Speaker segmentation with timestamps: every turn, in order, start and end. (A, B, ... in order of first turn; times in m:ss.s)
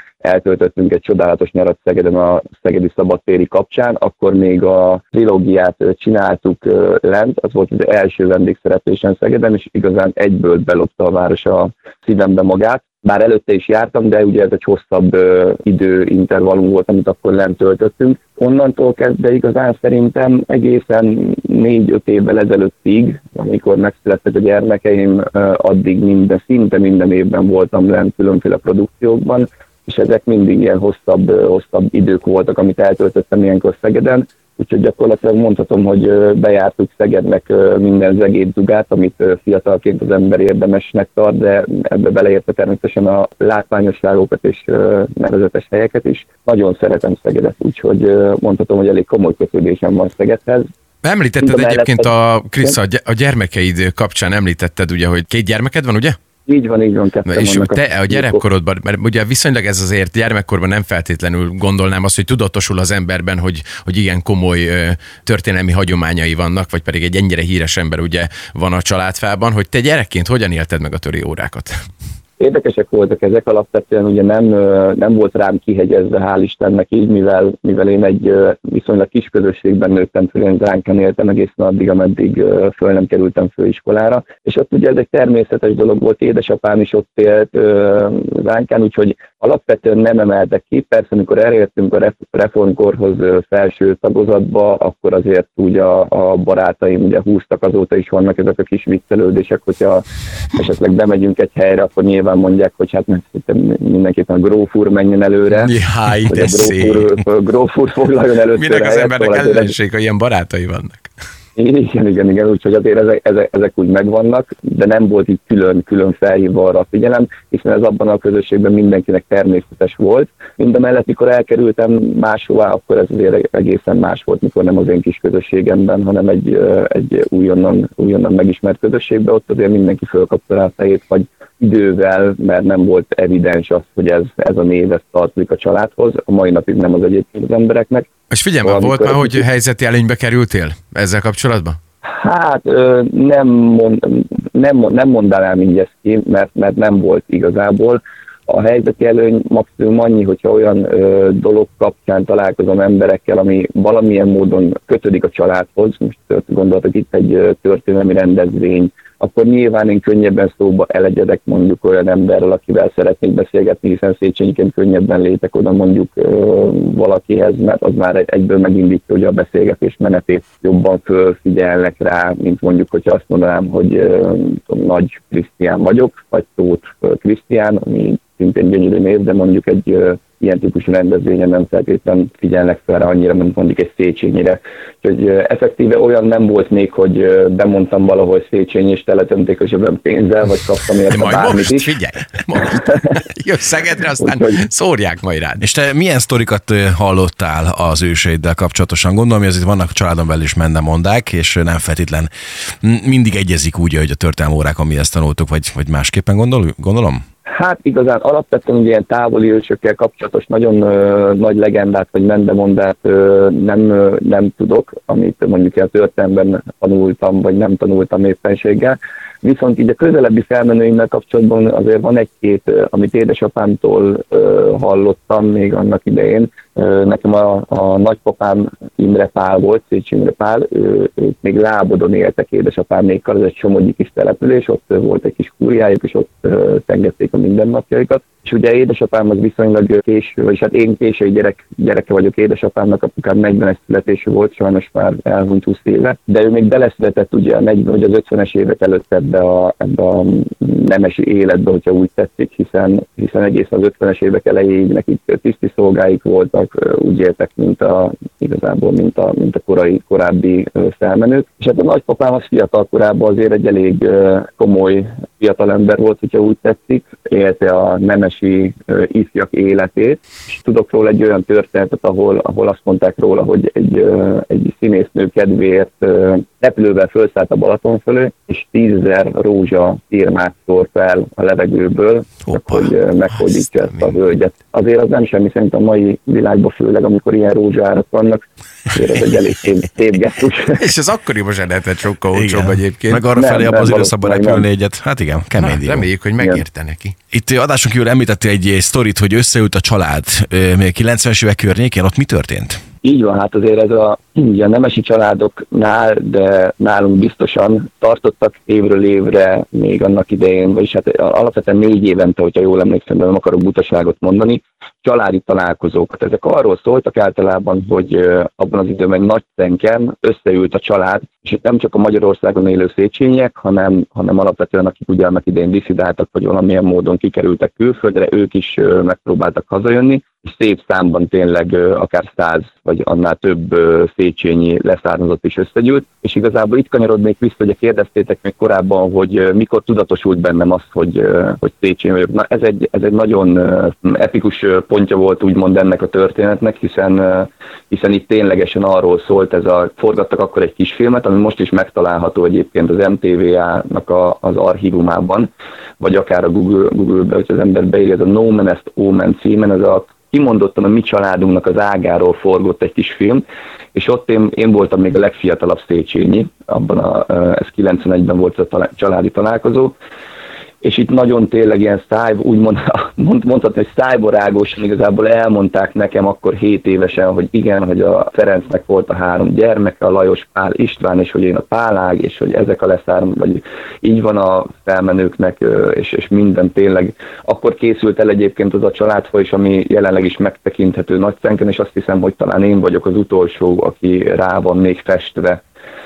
0:00.2-0:50.7 A
0:51.0-0:56.2 B
0:51.4-0:52.8 A
0:56.5-0:58.4 A
0:57.3-1:11.7 B
1:12.4-1:45.7 A
1:45.5-1:47.2 B
1:46.3-1:49.8 A
1:48.6-1:51.1 B
1:51.6-2:18.1 A
2:18.3-2:21.8 B
2:18.6-2:19.4 A
2:22.0-3:11.9 A
3:11.1-3:15.6 B
3:14.2-3:14.6 A
3:15.6-3:22.3 C
3:22.8-3:27.2 C
3:27.5-4:50.8 A
4:42.5-4:42.8 C
4:43.8-4:44.2 B
4:50.8-4:53.2 B
4:52.3-4:56.1 C
4:53.3-4:54.7 A
4:55.6-4:57.2 B
4:57.3-5:02.8 C
5:03.0-6:10.0 A
6:10.8-6:35.6 A